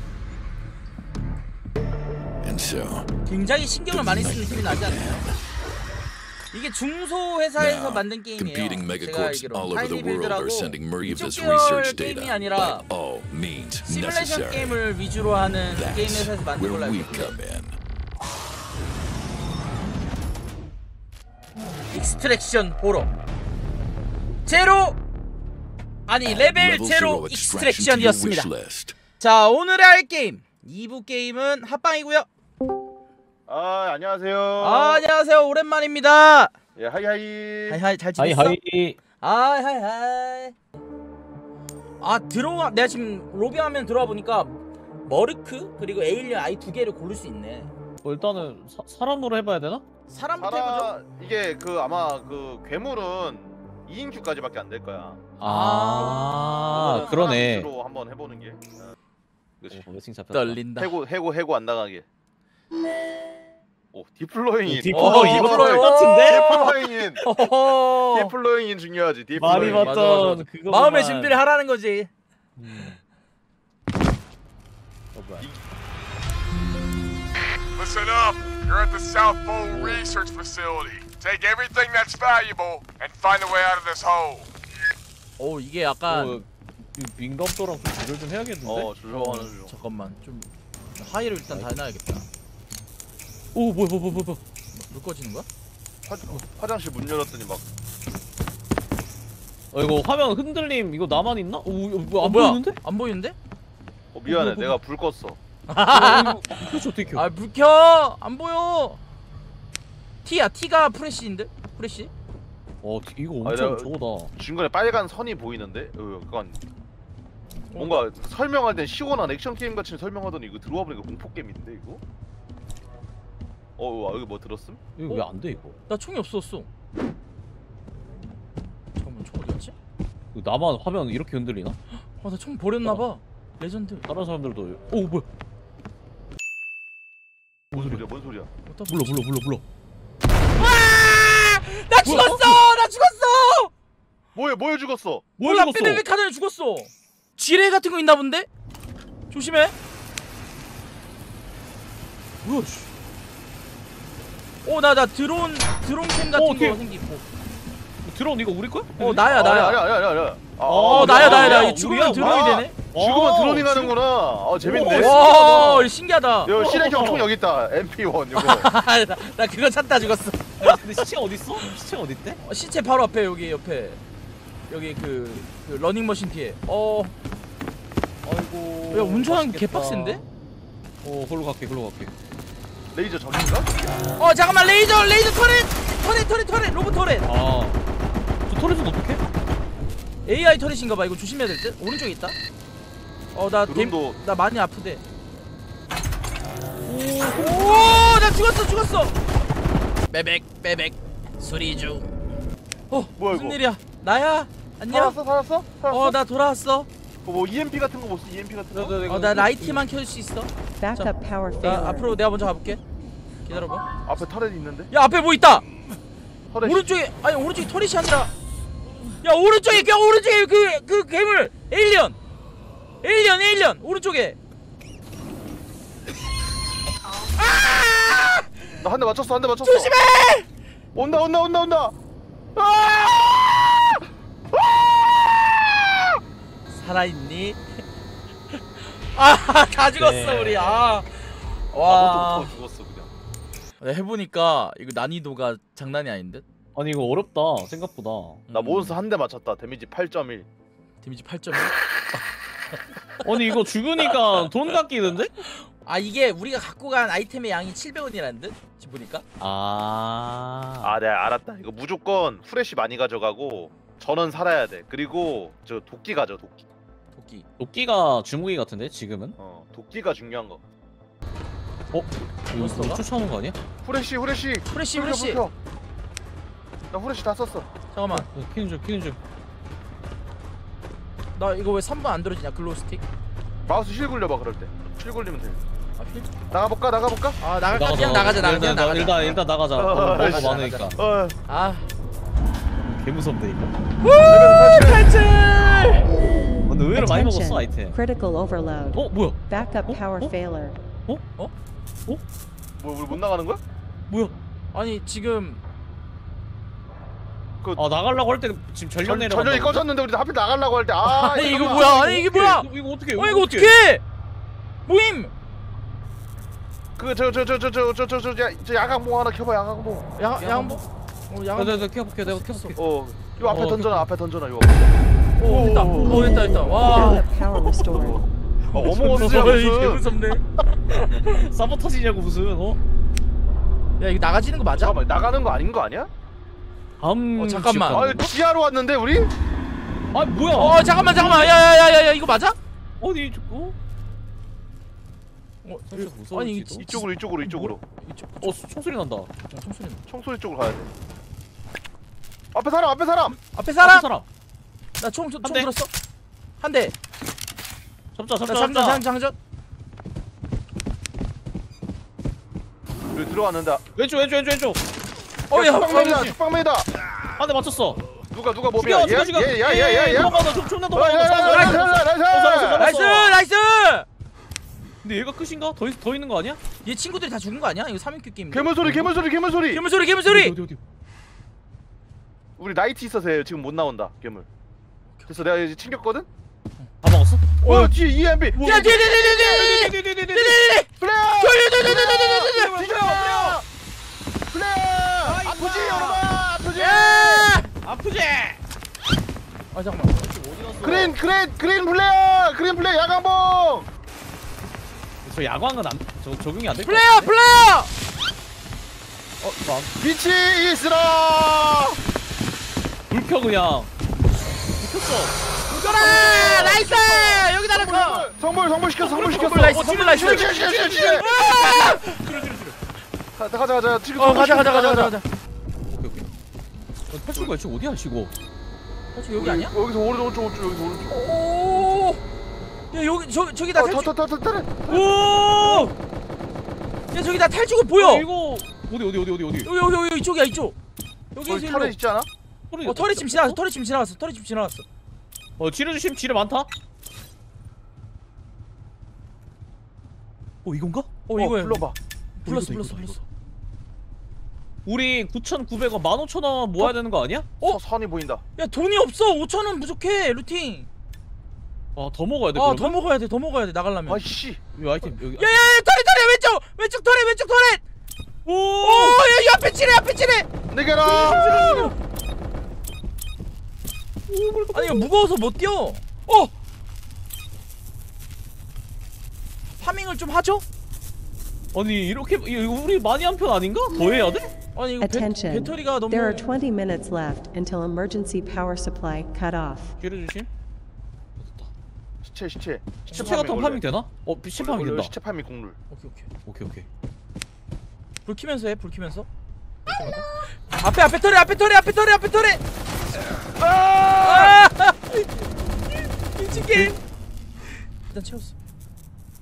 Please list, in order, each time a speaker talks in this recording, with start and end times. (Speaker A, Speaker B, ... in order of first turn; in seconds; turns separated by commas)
Speaker A: 2.4-3.1, Speaker B: 3.2-5.2, Speaker A: 3.9-5.4, Speaker B: 6.5-12.8, Speaker A: 7.6-14.8, Speaker B: 13.8-17.4, Speaker A: 15.7-17.8, Speaker B: 21.9-23.1, Speaker B: 24.4-25.0, Speaker B: 26.1-28.5, Speaker A: 26.2-28.9, Speaker B: 29.2-32.3, Speaker C: 33.5-35.0, Speaker B: 34.6-36.5, Speaker C: 36.8-37.8, Speaker B: 37.7-38.6, Speaker D: 38.2-39.0, Speaker B: 39.2-40.5, Speaker B: 42.0-47.7, Speaker D: 48.0-49.8, Speaker B: 50.1-50.9, Speaker C: 50.4-55.3, Speaker D: 55.4-57.7, Speaker B: 55.4-57.3, Speaker C: 56.7-58.6, Speaker C: 59.6-59.9, Speaker D: 59.7-60.6, Speaker B: 60.3-60.9, Speaker C: 60.8-62.0, Speaker C: 63.9-67.2, Speaker D: 64.6-66.8, Speaker B: 64.9-68.3, Speaker C: 68.1-70.3, Speaker D: 69.3-71.4, Speaker B: 69.4-72.1, Speaker D: 72.5-73.0, Speaker D: 75.1-75.5, Speaker E: 77.8-84.5, Speaker D: 79.7-80.0, Speaker B: 85.4-86.4, Speaker D: 86.1-88.9, Speaker C: 88.6-89.7, Speaker B: 89.1-92.3, Speaker D: 93.5-94.4, Speaker B: 94.7-95.5, Speaker C: 96.0-97.7, Speaker D: 99.7-102.8, Speaker B: 102.2-103.3, Speaker C: 104.1-105.4, Speaker D: 104.2-104.8, Speaker B: 105.7-109.0, Speaker D: 105.9-107.3, Speaker B: 110.2-112.1, Speaker D: 112.8-114.3, Speaker C: 113.4-116.6, Speaker B: 117.7-118.0, Speaker C: 117.8-122.0, Speaker C: 123.8-124.8, Speaker D: 125.0-125.8, Speaker B: 125.9-126.7, Speaker B: 128.9-129.7, Speaker D: 130.3-131.8, Speaker B: 131.9-134.1, Speaker D: 134.0-135.3, Speaker D: 137.7-138.1, Speaker C: 137.7-138.5, Speaker B: 138.6-139.2, Speaker D: 138.9-139.6, Speaker B: 140.6-143.7, Speaker D: 142.0-142.7, Speaker C: 144.3-145.3, Speaker D: 145.4-146.0, Speaker B: 145.4-148.5, Speaker B: 149.3-149.7, Speaker D: 152.4-152.9, Speaker B: 154.6-157.2, Speaker D: 156.3-156.8, Speaker D: 158.0-159.3, Speaker B: 159.0-159.8, Speaker C: 159.2-165.2, Speaker D: 160.6-163.9, Speaker B: 160.8-162.8, Speaker D: 164.6-165.9, Speaker B: 164.8-166.5, Speaker C: 166.4-168.7, Speaker D: 166.5-167.3, Speaker B: 168.3-171.1, Speaker D: 170.6-172.4, Speaker B: 172.4-174.0, Speaker B: 174.7-177.2, Speaker D: 178.2-180.2, Speaker B: 178.9-180.2, Speaker D: 181.0-182.1, Speaker C: 182.9-184.0, Speaker B: 184.2-187.3, Speaker D: 187.2-187.8, Speaker D: 188.5-189.2, Speaker B: 190.2-192.3, Speaker B: 193.3-195.0, Speaker C: 193.7-194.2, Speaker D: 196.9-198.0, Speaker B: 197.1-199.1, Speaker B: 200.1-202.1, Speaker B: 202.9-205.2, Speaker C: 203.2-203.6, Speaker C: 204.9-206.2, Speaker B: 205.9-206.9, Speaker C: 207.2-209.0, Speaker D: 208.7-209.8, Speaker B: 209.1-211.1, Speaker F: 210.8-212.2, Speaker B: 211.6-212.8, Speaker B: 213.4-213.9, Speaker C: 214.0-214.9, Speaker B: 214.9-215.6, Speaker C: 216.5-216.9, Speaker B: 216.6-218.3, Speaker B: 219.2-222.2, Speaker B: 223.0-224.4, Speaker B: 227.4-228.5, Speaker C: 228.8-229.9, Speaker B: 229.6-230.5, Speaker C: 230.9-231.9, Speaker C: 232.6-233.9, Speaker C: 234.5-236.0, Speaker B: 236.7-237.6, Speaker B: 238.5-242.5, Speaker D: 239.9-240.8, Speaker C: 241.8-243.1, Speaker B: 243.8-246.4, Speaker D: 246.7-248.4, Speaker B: 248.5-249.0, Speaker C: 248.5-250.5, Speaker B: 251.0-251.8, Speaker D: 253.2-255.4, Speaker B: 255.5-259.2, Speaker D: 259.4-261.0, Speaker C: 260.8-266.7, Speaker B: 267.1-267.4, Speaker D: 267.6-269.4, Speaker C: 269.4-270.6, Speaker D: 271.9-273.6, Speaker B: 272.6-273.0, Speaker C: 273.8-275.5, Speaker B: 274.7-275.4, Speaker C: 276.9-277.7, Speaker B: 277.9-278.3, Speaker D: 278.1-279.2, Speaker B: 281.4-283.0, Speaker C: 283.6-285.6, Speaker B: 286.0-286.3, Speaker C: 286.5-287.4, Speaker B: 287.4-291.9, Speaker D: 287.7-291.0, Speaker C: 289.7-291.4, Speaker D: 292.8-293.8, Speaker B: 294.0-296.1, Speaker C: 294.2-295.1, Speaker D: 296.6-298.0, Speaker F: 296.9-300.8, Speaker D: 298.9-300.3, Speaker C: 302.8-303.6, Speaker D: 304.1-304.3, Speaker B: 304.7-305.6, Speaker D: 307.8-309.9, Speaker C: 309.0-312.2, Speaker B: 311.0-314.0, Speaker D: 311.3-313.8, Speaker B: 314.9-315.3, Speaker C: 317.0-320.1, Speaker B: 320.1-322.8, Speaker D: 320.4-320.8, Speaker D: 321.6-322.8, Speaker C: 322.8-326.9, Speaker D: 323.4-324.1, Speaker B: 325.4-327.2, Speaker D: 326.1-327.8, Speaker F: 326.1-328.3, Speaker B: 328.7-330.4, Speaker C: 328.7-330.1, Speaker D: 329.1-329.5, Speaker D: 330.9-332.8, Speaker B: 334.0-334.9, Speaker C: 334.7-336.1, Speaker D: 337.0-338.4, Speaker B: 337.4-338.1, Speaker C: 337.9-339.3, Speaker D: 340.1-341.5, Speaker B: 340.5-342.6, Speaker D: 343.0-343.8, Speaker B: 345.6-348.6, Speaker D: 345.9-347.0, Speaker C: 346.8-347.8, Speaker D: 348.4-349.3, Speaker B: 349.5-350.0, Speaker C: 350.1-350.9, Speaker C: 352.5-353.4, Speaker B: 353.4-354.1, Speaker D: 353.8-354.2, Speaker B: 355.0-355.9, Speaker D: 355.4-355.7, Speaker B: 356.6-356.9, Speaker D: 358.1-359.0, Speaker B: 358.5-359.4, Speaker C: 363.1-363.8, Speaker D: 363.9-364.8, Speaker B: 365.5-366.4, Speaker C: 365.5-366.9, Speaker D: 367.4-368.0, Speaker C: 368.3-372.9, Speaker D: 368.7-373.4, Speaker B: 371.4-371.9, Speaker B: 372.8-374.1, Speaker D: 375.0-376.6, Speaker B: 376.8-379.1, Speaker C: 378.5-379.8, Speaker B: 379.7-380.6, Speaker D: 380.2-380.8, Speaker C: 382.6-384.5, Speaker C: 385.3-386.3, Speaker D: 387.0-387.6, Speaker C: 387.6-389.7, Speaker B: 387.6-387.9, Speaker B: 388.5-393.6, Speaker D: 388.6-390.7, Speaker C: 391.0-393.6, Speaker D: 392.9-393.6, Speaker C: 394.5-397.5, Speaker D: 395.2-396.2, Speaker B: 396.7-397.7, Speaker D: 397.8-398.6, Speaker B: 399.7-400.3, Speaker D: 400.2-401.2, Speaker C: 400.8-403.9, Speaker D: 405.2-407.3, Speaker B: 406.8-407.9, Speaker D: 409.6-409.9, Speaker C: 410.0-412.0, Speaker D: 413.1-413.9, Speaker D: 414.8-417.4, Speaker B: 415.7-418.3, Speaker C: 416.0-421.9, Speaker B: 419.0-422.2, Speaker D: 419.4-422.8, Speaker C: 423.4-425.2, Speaker B: 424.1-425.2, Speaker D: 425.9-426.3, Speaker D: 427.1-428.3, Speaker B: 429.1-429.7, Speaker C: 429.4-431.2, Speaker B: 431.1-432.2, Speaker B: 432.9-434.1, Speaker C: 433.7-435.1, Speaker D: 434.9-435.9, Speaker B: 434.9-435.9, Speaker B: 437.1-438.2, Speaker D: 437.9-439.7, Speaker B: 439.6-440.8, Speaker B: 441.3-442.0, Speaker C: 441.4-442.3, Speaker D: 442.7-443.6, Speaker B: 442.8-444.8, Speaker D: 445.6-446.7, Speaker D: 450.6-451.2, Speaker B: 451.3-453.2, Speaker C: 451.3-451.9, Speaker D: 452.4-453.2, Speaker D: 454.8-457.5, Speaker C: 457.6-458.4, Speaker B: 458.6-460.9, Speaker D: 461.9-463.0, Speaker B: 462.5-464.2, Speaker C: 464.1-464.6, Speaker D: 464.7-465.7, Speaker B: 465.3-467.8, Speaker D: 468.4-469.2, Speaker B: 468.8-470.5, Speaker C: 470.7-471.9, Speaker D: 471.0-471.9, Speaker B: 471.5-471.9, Speaker D: 474.3-475.1, Speaker B: 474.7-476.5, Speaker B: 479.8-480.6, Speaker D: 481.7-484.5, Speaker B: 484.7-486.5, Speaker F: 485.0-489.9, Speaker D: 490.0-490.5, Speaker D: 491.4-491.7, Speaker C: 492.2-493.8, Speaker B: 493.1-493.5, Speaker D: 493.1-495.1, Speaker C: 494.6-495.8, Speaker B: 495.9-496.3, Speaker D: 496.4-496.9, Speaker B: 498.2-499.3, Speaker B: 499.9-502.6, Speaker C: 503.6-504.6, Speaker B: 504.2-507.0, Speaker D: 506.5-506.9, Speaker B: 508.1-508.5